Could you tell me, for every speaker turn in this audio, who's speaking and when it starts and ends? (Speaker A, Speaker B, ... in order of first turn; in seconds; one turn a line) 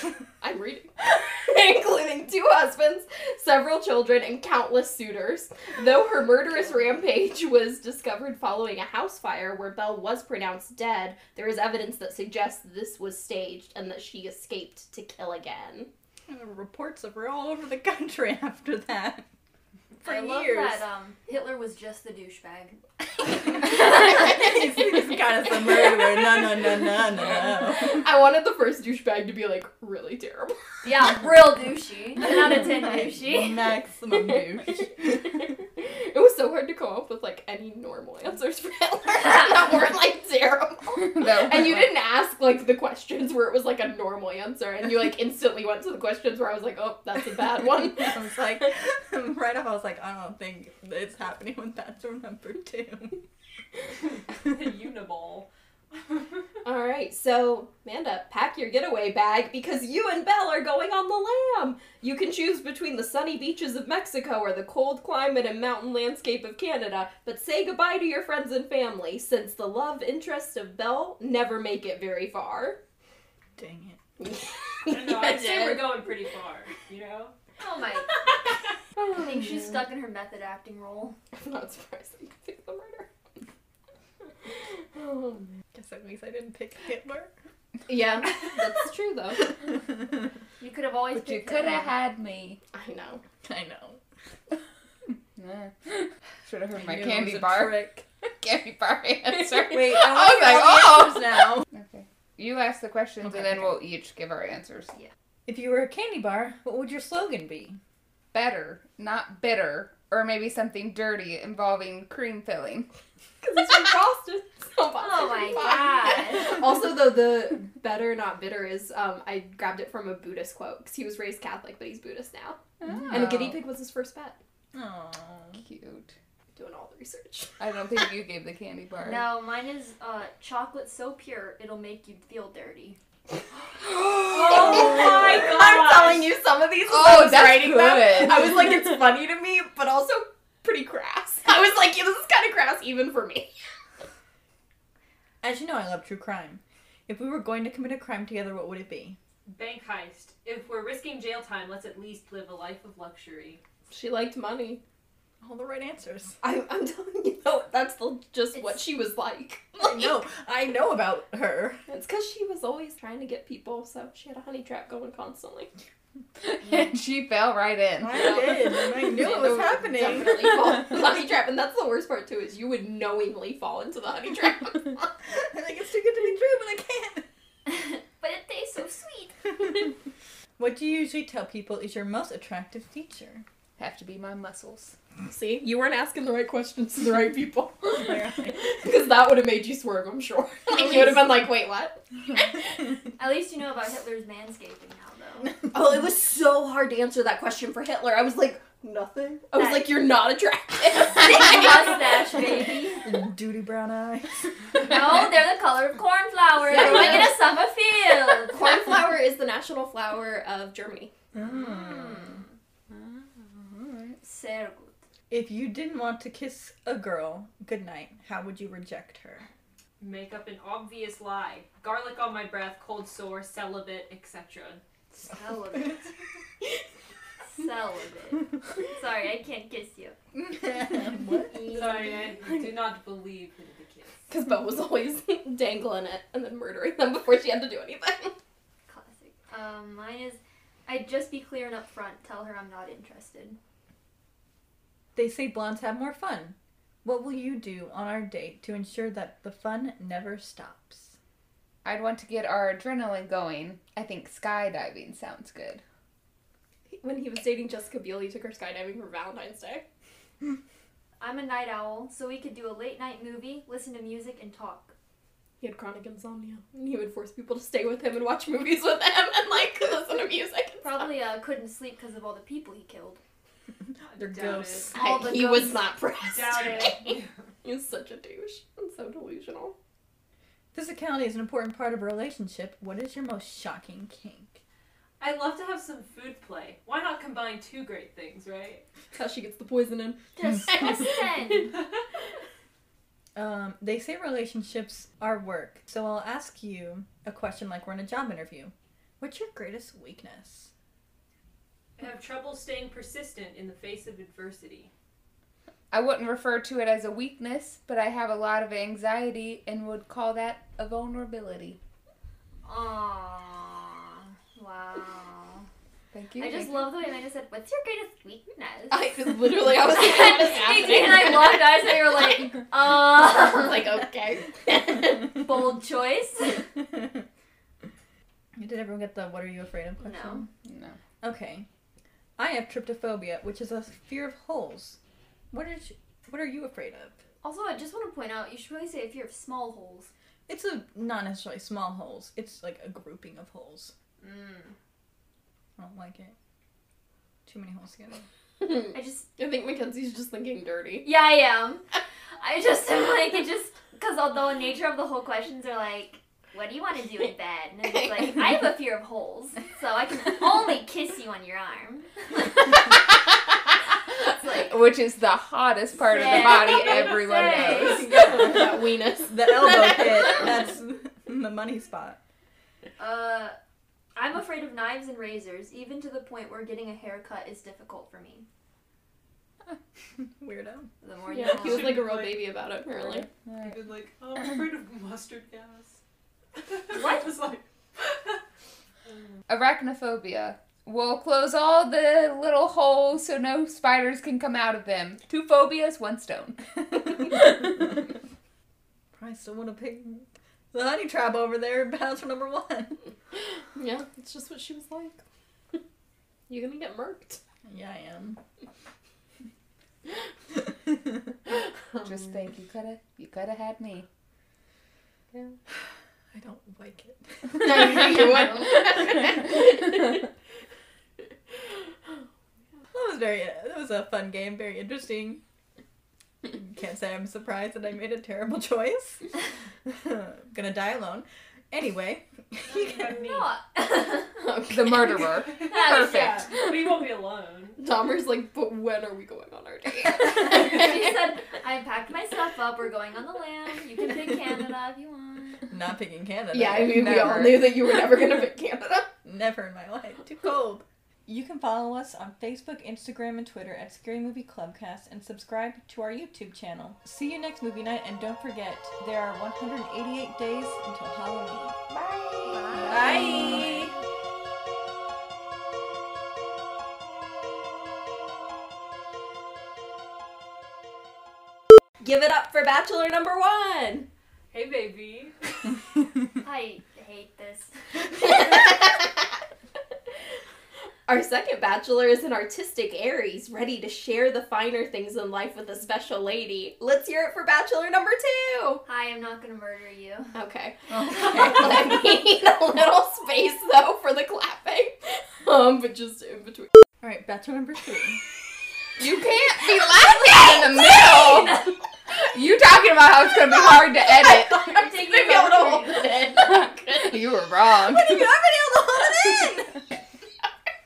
Speaker A: 0.4-15.9
Speaker B: 16.3-19.2
Speaker A: 20.0-20.8
Speaker C: 20.0-22.8
Speaker B: 20.2-20.7
Speaker B: 23.5-28.1
Speaker A: 27.3-30.6
Speaker C: 30.8-33.6
Speaker B: 33.1-34.9
Speaker A: 35.8-48.2
Speaker D: 40.9-41.9
Speaker B: 47.8-53.2
Speaker E: 54.4-56.3
Speaker A: 56.6-72.8
Speaker B: 73.6-74.0
Speaker A: 74.2-76.1
Speaker E: 74.8-77.3
Speaker C: 77.6-78.1
Speaker A: 79.0-79.6
Speaker C: 79.0-81.2
Speaker A: 81.3-83.1
Speaker A: 84.9-85.5
Speaker B: 85.7-87.3
Speaker A: 87.9-89.5
Speaker C: 90.6-92.0
Speaker D: 91.1-92.6
Speaker A: 92.7-93.2
Speaker B: 93.4-94.0
Speaker D: 95.4-104.9
Speaker B: 96.7-98.0
Speaker B: 99.7-101.7
Speaker B: 103.2-103.8
Speaker B: 105.5-107.8
Speaker D: 108.3-112.9
Speaker A: 113.4-122.6
Speaker C: 115.0-116.5
Speaker D: 122.8-123.6
Speaker B: 122.9-123.4
Speaker A: 123.1-124.4
Speaker B: 124.7-125.6
Speaker D: 125.6-126.1
Speaker A: 126.5-127.5
Speaker D: 127.6-129.2
Speaker C: 129.0-133.0
Speaker A: 133.8-143.5
Speaker E: 134.3-136.3
Speaker D: 136.8-138.7
Speaker B: 145.4-149.2
Speaker E: 149.5-153.6
Speaker A: 153.9-154.8
Speaker B: 155.4-156.3
Speaker A: 156.4-160.0
Speaker C: 158.5-158.8
Speaker B: 159.8-161.8
Speaker A: 161.9-165.7
Speaker D: 166.4-168.7
Speaker B: 168.0-170.5
Speaker A: 168.9-175.1
Speaker B: 175.3-177.2
Speaker C: 177.7-179.3
Speaker B: 180.6-183.4
Speaker D: 183.8-184.9
Speaker A: 185.3-192.0
Speaker B: 187.9-188.7
Speaker C: 193.2-195.5
Speaker A: 195.7-202.0
Speaker C: 199.5-199.9
Speaker C: 201.2-203.1
Speaker B: 203.0-205.1
Speaker C: 204.8-208.6
Speaker A: 206.6-207.4
Speaker B: 206.7-207.3
Speaker A: 208.5-211.1
Speaker B: 211.3-212.3
Speaker C: 211.5-212.4
Speaker D: 212.9-214.2
Speaker C: 214.2-215.0
Speaker B: 215.3-219.4
Speaker E: 220.0-224.8
Speaker C: 225.1-226.1
Speaker C: 227.5-230.2
Speaker B: 230.3-231.7
Speaker A: 231.5-232.5
Speaker E: 231.7-234.3
Speaker A: 234.3-238.3
Speaker C: 238.9-243.6
Speaker B: 245.1-251.2
Speaker D: 251.8-255.8
Speaker A: 256.9-259.8
Speaker C: 261.2-264.9
Speaker A: 265.6-271.1
Speaker C: 270.8-273.2
Speaker B: 274.1-274.9
Speaker E: 274.1-274.9
Speaker A: 274.9-279.8
Speaker C: 274.9-275.8
Speaker E: 276.3-277.3
Speaker B: 280.7-284.6
Speaker E: 285.2-288.8
Speaker A: 289.1-291.3
Speaker C: 290.4-291.8
Speaker B: 293.3-300.7
Speaker E: 302.0-304.9
Speaker D: 305.9-311.8
Speaker C: 312.6-315.6
Speaker D: 316.1-316.9
Speaker C: 316.4-323.8
Speaker A: 318.9-322.0
Speaker A: 322.8-325.4
Speaker C: 325.4-326.7
Speaker B: 328.5-330.5
Speaker C: 330.0-330.4
Speaker D: 330.6-330.9
Speaker B: 331.2-331.7
Speaker B: 332.4-335.0
Speaker B: 335.5-337.2
Speaker C: 337.4-340.1
Speaker B: 340.5-343.9
Speaker C: 344.2-344.7
Speaker B: 345.8-346.3
Speaker B: 347.4-348.2
Speaker A: 348.6-351.1
Speaker C: 348.9-349.3
Speaker C: 351.0-351.8
Speaker C: 352.4-362.1
Speaker C: 364.3-364.8
Speaker D: 364.4-368.4
Speaker C: 366.0-368.2
Speaker E: 366.7-367.1
Speaker A: 367.7-370.5
Speaker B: 369.3-372.2
Speaker C: 373.0-373.6
Speaker C: 374.1-378.4
Speaker B: 380.4-380.9
Speaker C: 381.0-382.0
Speaker A: 381.3-383.3
Speaker E: 381.5-382.5
Speaker D: 383.3-383.7
Speaker E: 383.6-386.0
Speaker E: 386.6-388.4
Speaker C: 386.9-387.2
Speaker D: 389.5-398.0
Speaker B: 399.1-403.0
Speaker A: 403.7-405.2
Speaker A: 406.5-407.4
Speaker B: 407.6-408.4
Speaker D: 412.0-414.1
Speaker B: 416.3-418.3
Speaker A: 417.5-420.2
Speaker B: 422.9-425.4
Speaker B: 426.4-429.2
Speaker B: 429.8-432.9
Speaker E: 432.6-433.5
Speaker C: 433.2-434.3
Speaker A: 434.4-435.4
Speaker D: 434.7-436.6
Speaker E: 435.6-437.8
Speaker C: 435.7-436.4
Speaker A: 437.8-441.1
Speaker C: 440.3-445.6
Speaker B: 445.7-447.4
Speaker A: 446.5-449.1
Speaker D: 446.7-447.8
Speaker B: 449.2-461.8
Speaker D: 461.9-463.8
Speaker C: 462.5-463.8
Speaker B: 462.8-463.9
Speaker A: 472.0-474.1
Speaker E: 474.5-475.4
Speaker C: 476.4-477.7
Speaker A: 478.2-479.2
Speaker A: 481.1-488.8
Speaker C: 488.9-490.3
Speaker A: 490.3-496.7
Speaker B: 490.9-491.9
Speaker B: 497.0-498.2
Speaker D: 499.0-504.8
Speaker A: 500.9-501.5
Speaker A: 504.0-509.8
Speaker C: 504.8-506.3
Speaker D: 506.4-508.3